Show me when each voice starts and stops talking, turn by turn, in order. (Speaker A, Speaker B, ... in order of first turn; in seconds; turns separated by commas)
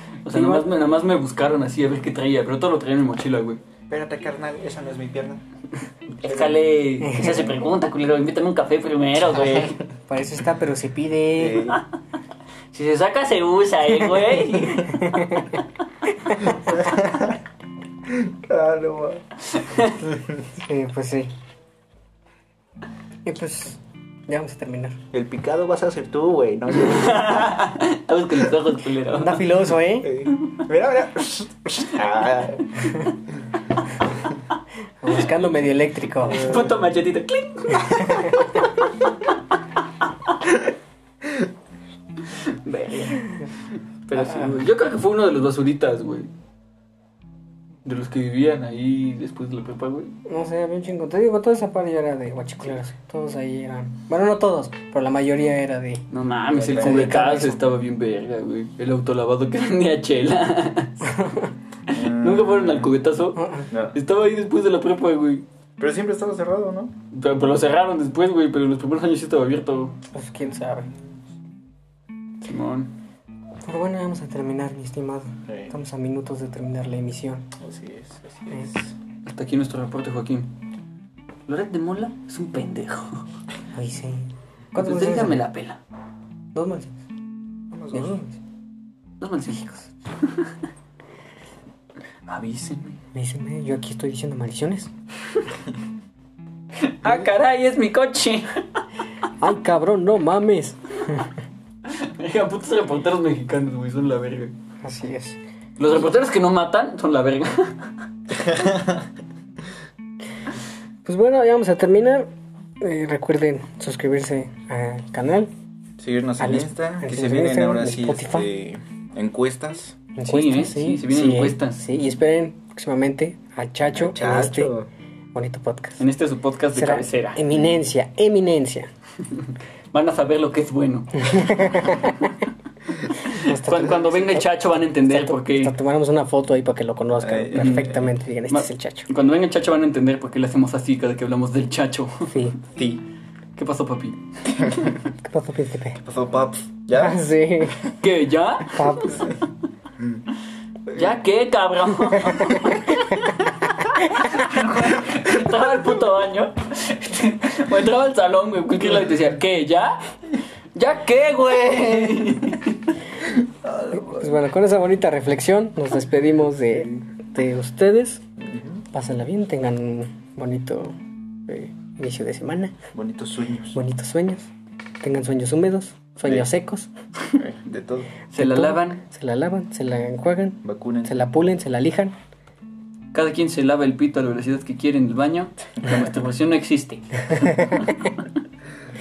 Speaker A: 0.2-3.6, Speaker B: 0.3-0.7, Speaker C: 3.9-5.4, Speaker C: 6.2-6.6, Speaker A: 6.2-9.8, Speaker B: 7.0-7.6, Speaker C: 9.4-9.7, Speaker B: 10.1-11.8, Speaker C: 11.4-11.8, Speaker A: 12.7-15.4, Speaker B: 14.5-15.6, Speaker C: 16.4-17.4, Speaker C: 18.1-19.2, Speaker A: 19.4-20.0, Speaker C: 20.0-20.4, Speaker B: 20.6-21.3, Speaker B: 23.2-25.0, Speaker C: 25.1-27.5, Speaker A: 26.7-29.4, Speaker B: 29.1-30.1, Speaker C: 30.0-33.0, Speaker B: 35.0-36.5, Speaker A: 36.2-40.4, Speaker C: 36.3-36.6, Speaker B: 37.8-38.3, Speaker A: 42.2-43.4, Speaker A: 44.1-46.3, Speaker B: 44.2-44.6, Speaker A: 47.8-50.1, Speaker B: 50.2-56.0, Speaker A: 56.1-61.0, Speaker C: 56.5-57.4, Speaker B: 56.8-57.6, Speaker B: 61.0-61.5, Speaker A: 61.9-65.4, Speaker C: 61.9-62.9, Speaker B: 63.4-63.7, Speaker C: 63.7-64.0, Speaker C: 65.8-66.9, Speaker A: 67.1-69.9, Speaker B: 70.1-70.9, Speaker A: 72.4-72.9, Speaker B: 73.7-77.5, Speaker C: 75.5-75.7, Speaker C: 77.6-78.9, Speaker A: 79.2-80.5, Speaker A: 81.5-83.2, Speaker B: 83.7-85.5, Speaker A: 84.8-85.8, Speaker B: 86.5-86.9, Speaker C: 87.7-88.2, Speaker B: 87.9-88.4, Speaker A: 89.2-90.5, Speaker A: 92.3-93.0, Speaker B: 93.1-94.9, Speaker A: 96.8-98.8, Speaker B: 99.4-101.3, Speaker A: 101.8-104.5, Speaker B: 104.8-105.4, Speaker A: 105.8-107.9, Speaker C: 108.4-109.0, Speaker B: 111.0-112.3, Speaker B: 112.8-115.5, Speaker C: 116.0-120.0, Speaker B: 116.4-118.5, Speaker B: 120.2-124.7, Speaker A: 120.3-121.8, Speaker C: 123.9-124.9, Speaker B: 125.3-126.0, Speaker A: 126.0-127.4, Speaker B: 126.7-128.9, Speaker A: 129.3-132.2, Speaker B: 131.2-132.3, Speaker A: 133.2-135.7, Speaker B: 133.3-134.4, Speaker B: 135.1-139.1, Speaker C: 137.2-138.1, Speaker A: 137.6-137.8, Speaker A: 138.5-142.3, Speaker B: 142.3-142.6, Speaker C: 142.7-143.0, Speaker A: 143.6-144.2, Speaker C: 144.5-145.0, Speaker B: 145.2-146.0, Speaker C: 146.0-147.9, Speaker B: 146.9-147.8, Speaker A: 148.0-149.3, Speaker B: 148.7-149.2, Speaker C: 150.9-151.1, Speaker A: 150.9-153.2, Speaker B: 152.2-153.4, Speaker A: 153.8-160.1, Speaker A: 160.7-163.0, Speaker C: 163.3-164.4, Speaker B: 163.9-168.2, Speaker C: 168.4-168.8, Speaker B: 168.9-172.8, Speaker C: 172.9-173.8, Speaker B: 173.7-174.5, Speaker B: 175.0-176.9, Speaker C: 177.3-178.1, Speaker A: 178.3-179.0, Speaker B: 178.3-182.2, Speaker C: 180.6-181.2, Speaker A: 183.1-188.1, Speaker B: 187.4-187.8